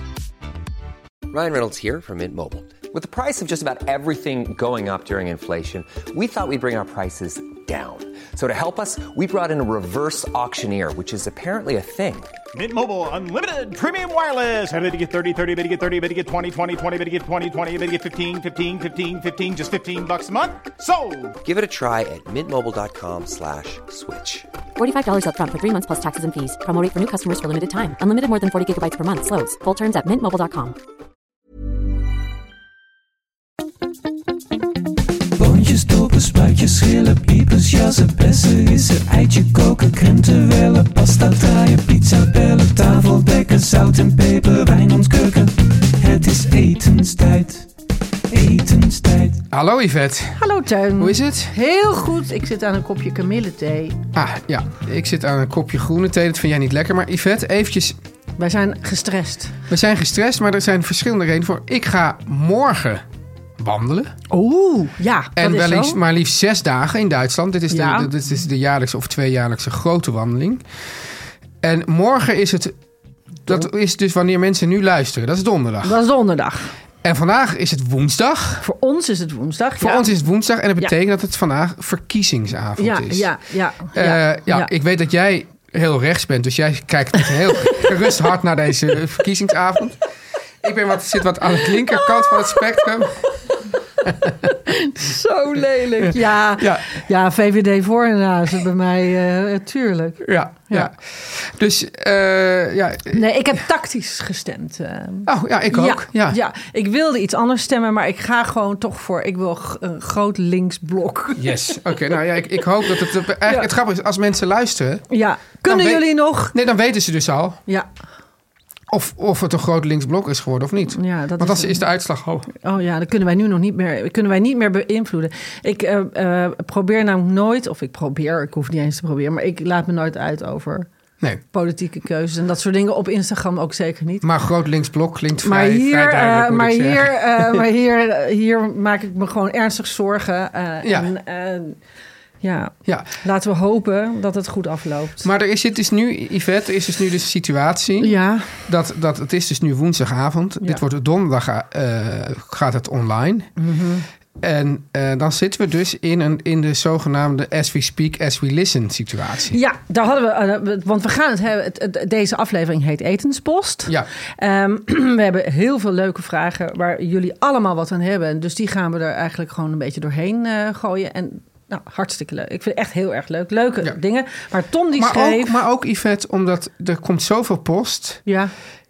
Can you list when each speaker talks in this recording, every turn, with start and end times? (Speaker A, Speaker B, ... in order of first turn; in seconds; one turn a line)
Speaker A: 1.3-12.3
Speaker B: 12.5-21.4
Speaker A: 21.4-24.5
Speaker C: 24.8-30.8
Speaker D: 35.4-47.7
Speaker D: 48.3-49.4
Speaker E: 49.5-50.4
Speaker F: 50.4-54.0
Speaker E: 51.0-51.5
Speaker E: 54.1-58.0
Speaker F: 58.4-59.5
Speaker E: 59.7-63.0
Speaker E: 63.6-64.1
Speaker F: 64.3-66.0
Speaker E: 65.3-70.6
Speaker F: 67.7-68.1
Speaker E: 71.6-72.8
Speaker E: 73.4-76.0
Speaker F: 75.8-76.7
Speaker E: 77.0-78.6
Speaker F: 78.6-80.1
Speaker E: 79.8-83.3
Speaker F: 82.8-84.7
Speaker E: 83.9-90.0
Speaker E: 90.6-93.2
Speaker F: 91.9-92.6
Speaker F: 94.0-100.9
Speaker E: 94.0-94.5
Speaker E: 96.0-96.8
Speaker E: 100.2-103.2
Speaker F: 103.1-112.1
Speaker E: 105.2-106.4
Speaker E: 111.4-115.0
Speaker F: 115.1-116.5
Speaker E: 115.6-117.6
Speaker E: 118.9-122.5
Speaker F: 120.9-121.8
Speaker F: 122.5-130.9
Speaker F: 131.5-134.2
Speaker E: 134.2-137.6
Speaker F: 135.4-141.8
Speaker E: 140.8-141.1
Speaker F: 142.4-145.3
Speaker E: 142.8-143.1
Speaker E: 145.2-153.5
Speaker F: 148.0-148.6
Speaker F: 153.6-154.1
Speaker E: 154.4-159.6
Speaker F: 159.5-175.6
Speaker E: 174.9-178.2
Speaker F: 178.2-178.5